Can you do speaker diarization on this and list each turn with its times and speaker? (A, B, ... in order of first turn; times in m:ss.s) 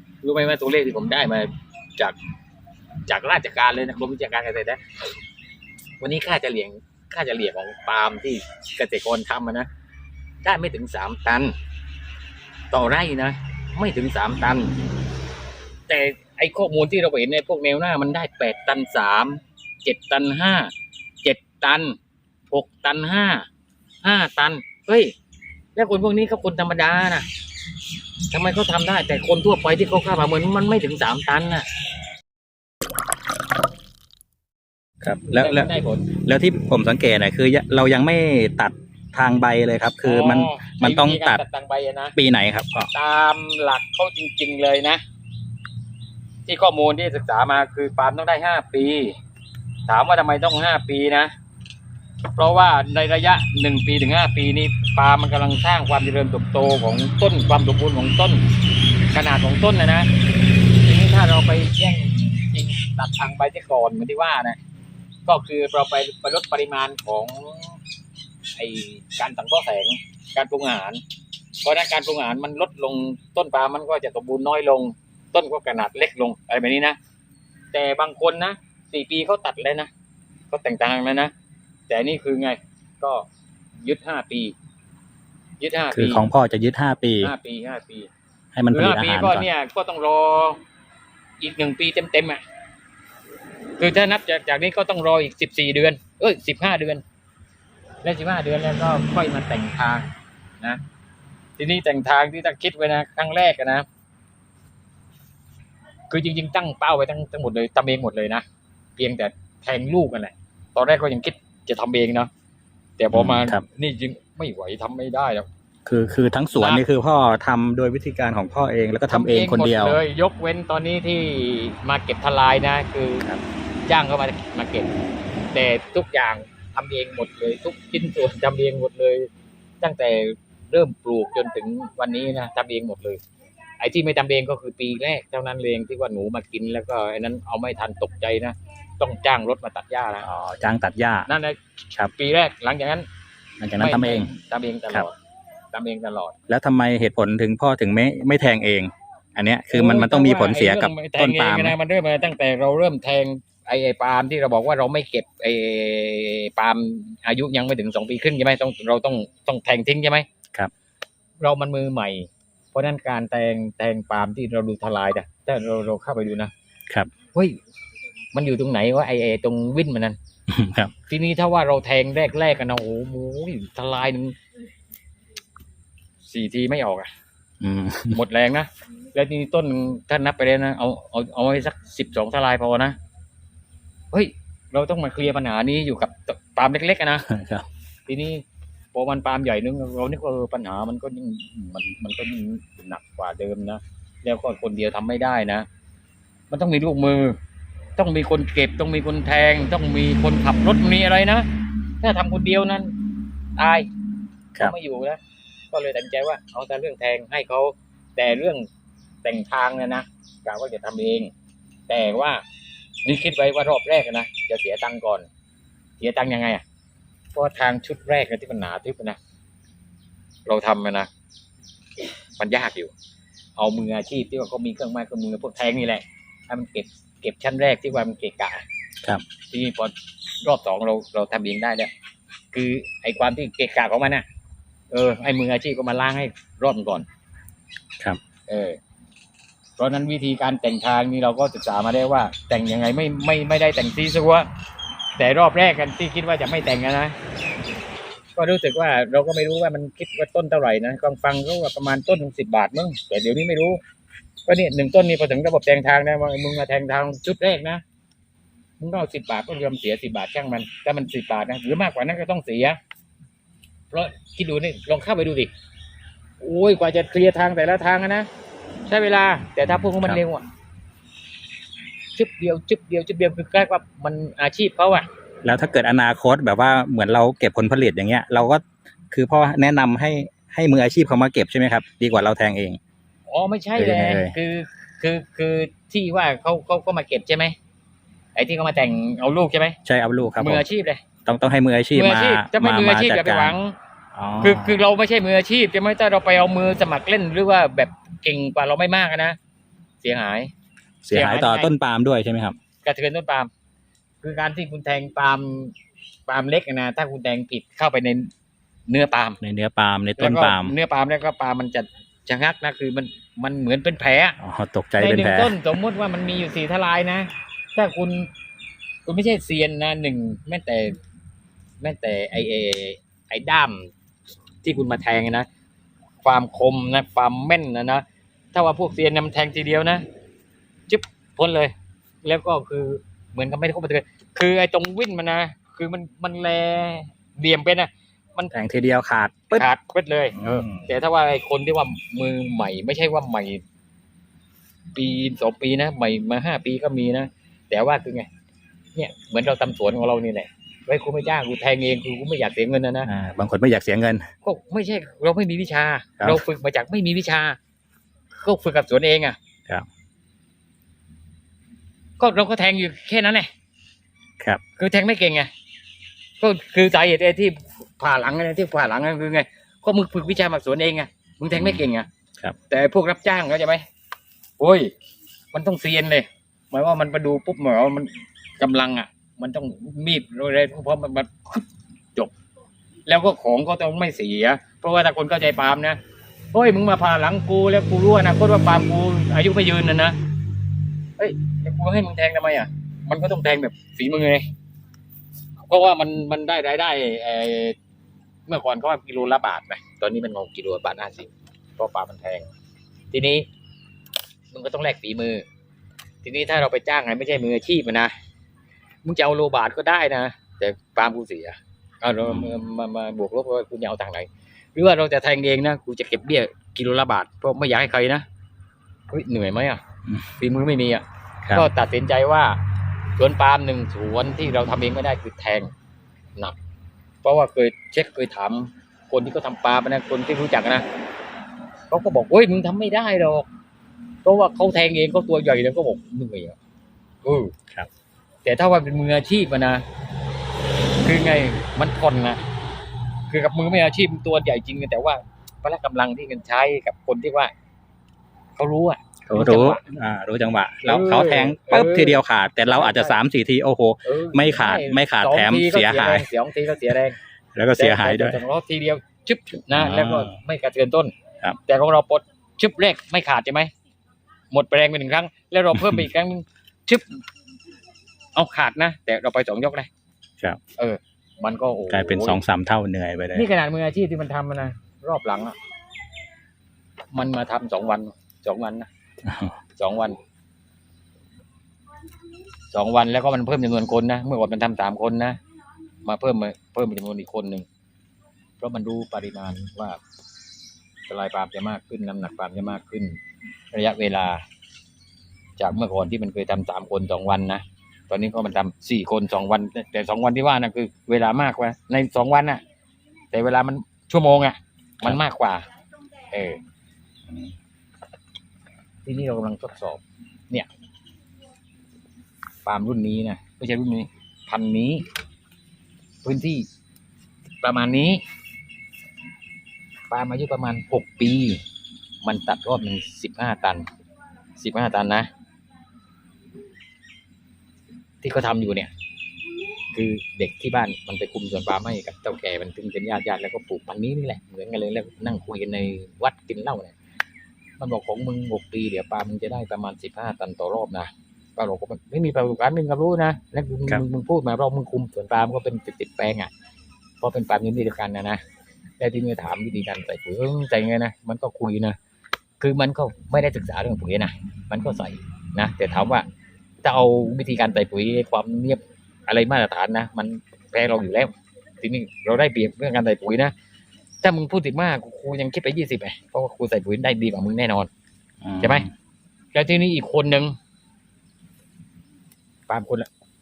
0:00.2-0:02.2 A
0:03.1-0:04.8 A
0:06.0-0:09.7 A
0:10.4-0:11.5 A
0:12.7-0:14.7 A
0:15.9-0:20.7 A
0:21.2-0:22.0 A
0:22.5-0:23.5 A
0:24.0-0:25.1 A
0:25.8-0:27.3 A
0:28.3-0:31.7 A
0:35.0-0:41.4 B
0:35.3-0:36.0 A
0:40.0-0:42.2 A
0:42.2-0:42.9 B
0:42.9-0:45.0 A
0:46.5-0:49.2 A
0:49.9-0:51.3 A
0:52.3-0:58.4 A
0:59.1-1:00.1 A
1:00.8-1:04.6 A
1:05.3-1:07.8 A
1:08.6-1:11.0 A
1:11.6-1:17.0 A
1:17.7-1:19.9 A
1:20.5-1:21.3 A
1:21.9-1:23.2 A
1:23.8-1:24.5 A
1:25.6-1:26.2 A
1:25.9-1:27.3 B
1:27.2-1:28.1 A
1:28.5-1:29.4 B
1:28.7-1:30.6 A
1:31.4-1:32.4 A
1:33.8-1:37.0 A
1:38.0-1:40.1 A
1:41.6-1:43.8 A
1:46.1-1:48.4 A
1:49.0-1:52.3 A
1:53.0-1:55.5 A
1:53.1-1:53.6 B
1:55.8-2:00.0 B
1:56.6-1:56.8 A
1:59.1-2:03.2 A
2:03.9-2:04.9 A
2:05.5-2:09.3 A
2:09.8-2:13.2 A
2:13.8-2:20.3 A
2:20.2-2:21.3 B
2:21.3-2:23.1 A
2:23.6-2:24.3 B
2:23.8-2:25.2 A
2:25.7-2:26.4 A
2:26.5-2:31.8 B
2:29.7-2:40.3 A
2:41.4-2:46.5 A
2:47.3-2:47.6 A
2:48.3-2:50.2 A
2:50.5-2:50.9 B
2:51.1-2:54.4 A
2:56.2-2:57.1 A
2:57.6-2:58.2 B
2:58.1-3:03.0 A
3:04.1-3:07.3 A
3:07.3-3:07.6 B
3:08.1-3:15.7 A
3:16.5-3:17.4 A
3:18.0-3:21.5 A
3:22.0-3:23.0 A
3:23.6-3:23.9 A
3:24.6-3:25.2 A
3:25.7-3:28.7 A
3:29.2-3:31.3 A
3:31.9-3:32.4 A
3:33.0-3:35.3 A
3:36.0-3:36.6 A
3:37.3-3:39.2 A
3:40.4-3:41.1 A
3:42.4-3:42.9 A
3:43.6-3:48.6 A
3:49.5-3:51.9 A
3:52.5-3:54.2 A
3:54.9-3:57.0 A
3:58.5-3:58.8 A
3:59.8-4:04.5 A
4:05.2-4:07.2 A
4:08.4-4:13.8 A
4:14.5-4:17.8 A
4:18.8-4:22.8 A
4:23.9-4:25.5 A
4:26.4-4:28.3 A
4:28.9-4:30.4 A
4:32.2-4:35.0 A
4:35.4-4:42.8 B
4:43.3-4:47.6 A
4:43.8-4:44.4 B
4:48.4-4:49.8 A
4:49.8-4:50.6 B
4:50.4-4:51.0 A
4:51.2-4:53.6 B
4:51.9-4:53.8 A
4:54.1-4:54.8 B
4:54.4-4:59.4 A
5:00.0-5:00.5 A
5:01.0-5:02.6 B
5:01.1-5:01.7 A
5:02.8-5:03.5 A
5:04.2-5:05.7 A
5:06.3-5:08.3 A
5:08.9-5:09.4 A
5:09.4-5:10.7 B
5:10.2-5:14.4 A
5:14.4-5:15.6 B
5:15.0-5:18.3 A
5:19.0-5:21.0 A
5:21.8-5:23.9 A
5:24.6-5:25.5 A
5:26.2-5:30.0 A
5:30.9-5:38.5 A
5:38.5-5:39.6 B
5:39.5-5:43.6 A
5:40.4-5:40.8 B
5:44.9-5:48.3 A
5:49.0-5:53.1 A
5:53.0-5:54.3 B
5:54.4-5:57.6 A
5:58.3-5:59.4 A
6:02.2-6:03.5 A
6:04.8-6:05.5 A
6:06.4-6:12.1 A
6:11.5-6:11.8 B
6:12.7-6:13.8 A
6:14.6-6:14.9 A
6:15.5-6:22.3 A
6:23.1-6:26.0 A
6:26.5-6:30.2 A
6:31.2-6:34.5 A
6:35.7-6:37.8 A
6:38.5-6:42.5 A
6:43.1-6:43.4 A
6:44.5-6:45.4 A
6:46.2-6:48.1 A
6:49.0-6:58.2 A
6:59.1-6:59.8 A
7:00.4-7:02.6 A
7:03.2-7:05.7 A
7:07.2-7:10.8 A
7:11.9-7:13.5 A
7:14.2-7:16.6 A
7:17.2-7:17.5 A
7:18.4-7:19.8 A
7:21.0-7:22.4 A
7:23.3-7:27.5 A
7:28.6-7:29.8 A
7:29.2-7:36.2 B
7:30.8-7:33.2 A
7:34.0-7:37.2 A
7:37.5-7:38.4 B
7:37.8-7:41.1 A
7:39.7-7:40.3 B
7:41.7-7:43.7 A
7:44.5-7:47.2 A
7:48.3-7:49.9 A
7:50.8-7:52.4 A
7:51.9-7:53.5 B
7:53.3-7:55.6 A
7:57.1-7:58.9 A
7:59.2-7:59.6 B
7:59.8-8:00.2 A
8:02.7-8:05.4 A
8:06.0-8:07.7 A
8:08.6-8:10.0 A
8:11.1-8:13.2 A
8:13.7-8:14.4 A
8:15.6-8:22.6 A
8:23.3-8:25.6 A
8:26.3-8:26.6 A
8:29.0-8:30.7 A
8:32.6-8:35.0 A
8:36.2-8:36.7 A
8:37.6-8:38.2 A
8:40.1-8:41.6 A
8:42.2-8:43.9 A
8:44.6-8:45.3 A
8:48.2-8:48.9 A
8:49.9-8:56.9 A
8:57.8-9:06.5 A
9:07.2-9:08.4 A
9:09.0-9:12.0 A
9:12.6-9:16.2 A
9:16.8-9:23.5 A
9:24.2-9:27.9 A
9:28.4-9:28.9 B
9:28.6-9:28.9 A
9:29.5-9:30.6 A
9:32.7-9:33.1 A